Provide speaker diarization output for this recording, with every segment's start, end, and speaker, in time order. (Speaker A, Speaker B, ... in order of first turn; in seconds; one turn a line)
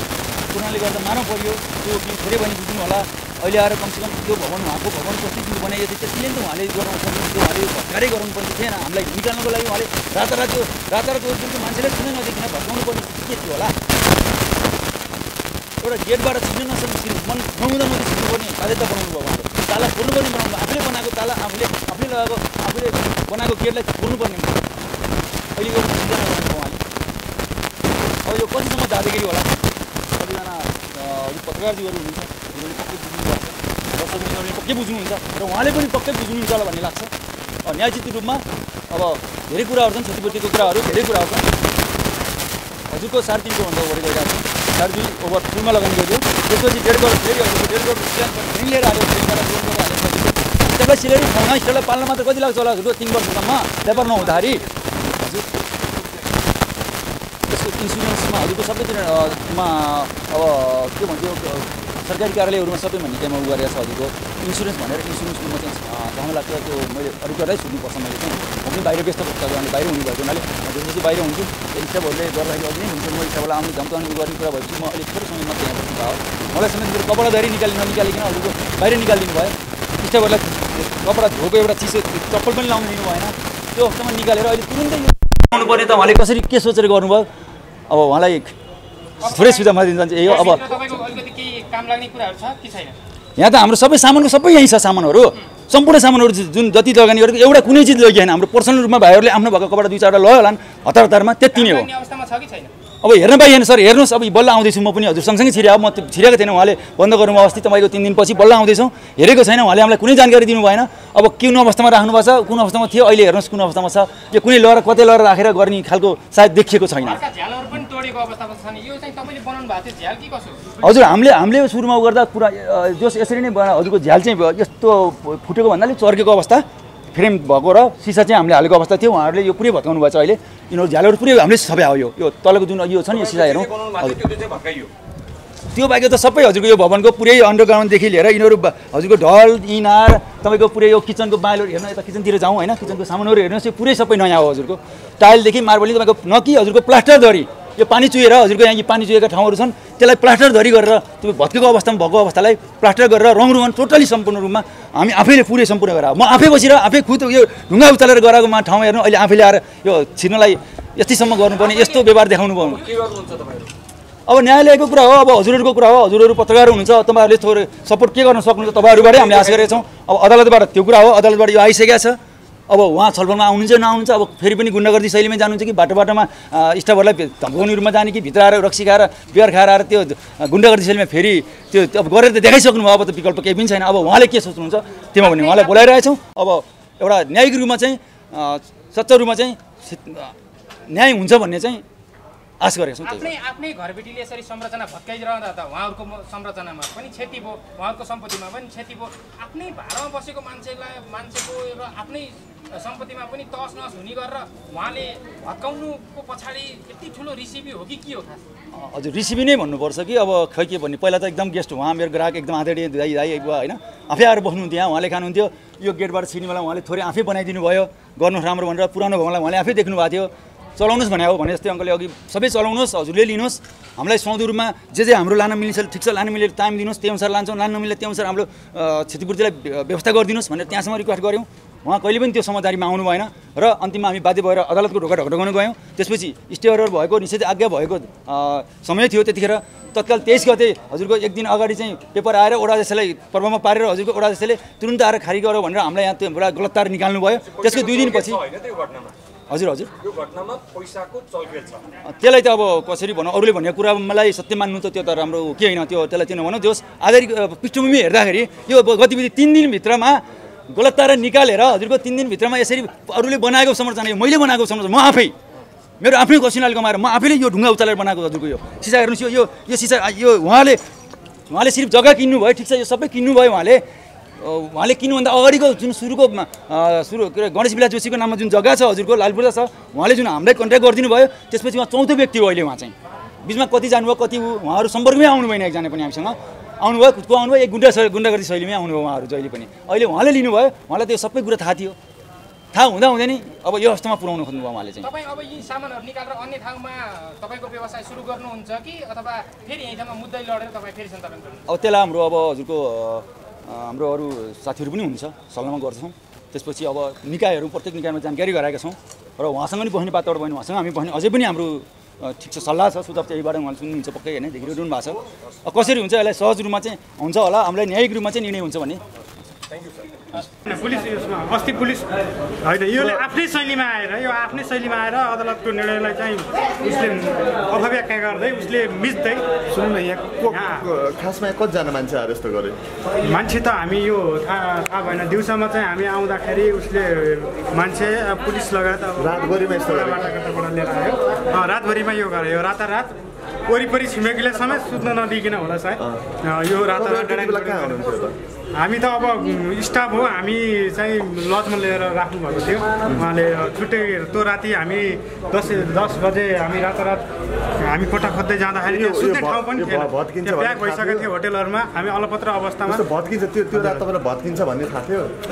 Speaker A: 0.5-13.7
Speaker A: 15.8-24.6
Speaker A: 25.6-26.8
Speaker A: 28.2-29.5
Speaker A: 30.2-37.1
Speaker A: 37.6-41.5
Speaker B: 40.6-41.0
Speaker A: 42.9-55.4
Speaker B: 53.8-56.5
Speaker A: 57.5-87.3
Speaker A: 87.9-88.5
Speaker A: 89.2-90.8
Speaker C: 89.2-93.0
Speaker A: 93.4-101.9
Speaker C: 101.5-102.7
Speaker A: 103.0-117.2
Speaker C: 117.0-120.8
Speaker A: 120.8-134.2
Speaker B: 133.1-134.9
Speaker A: 135.7-162.8
Speaker B: 162.6-163.7
Speaker A: 164.3-172.2
Speaker B: 168.8-169.8
Speaker A: 172.7-190.3
Speaker C: 185.2-185.9
Speaker A: 190.9-191.8
Speaker A: 192.6-193.3
Speaker C: 193.0-208.4
Speaker A: 208.7-248.4
Speaker B: 247.3-249.1
Speaker A: 249.5-249.9
Speaker B: 250.0-251.9
Speaker A: 252.1-265.3
Speaker A: 266.0-270.8
Speaker A: 271.5-273.8
Speaker A: 274.4-291.9
Speaker A: 292.7-295.1
Speaker C: 295.0-301.6
Speaker A: 301.7-319.0
Speaker B: 319.7-320.1
Speaker D: 320.6-322.1
Speaker D: 322.6-329.5
Speaker E: 322.9-323.2
Speaker E: 329.7-332.8
Speaker D: 330.5-330.9
Speaker D: 333.2-343.1
Speaker E: 339.2-340.4
Speaker D: 343.7-348.1
Speaker E: 346.7-348.4
Speaker D: 348.8-357.2
Speaker D: 357.8-363.1
Speaker E: 358.8-361.3
Speaker E: 362.8-365.3
Speaker D: 363.7-364.1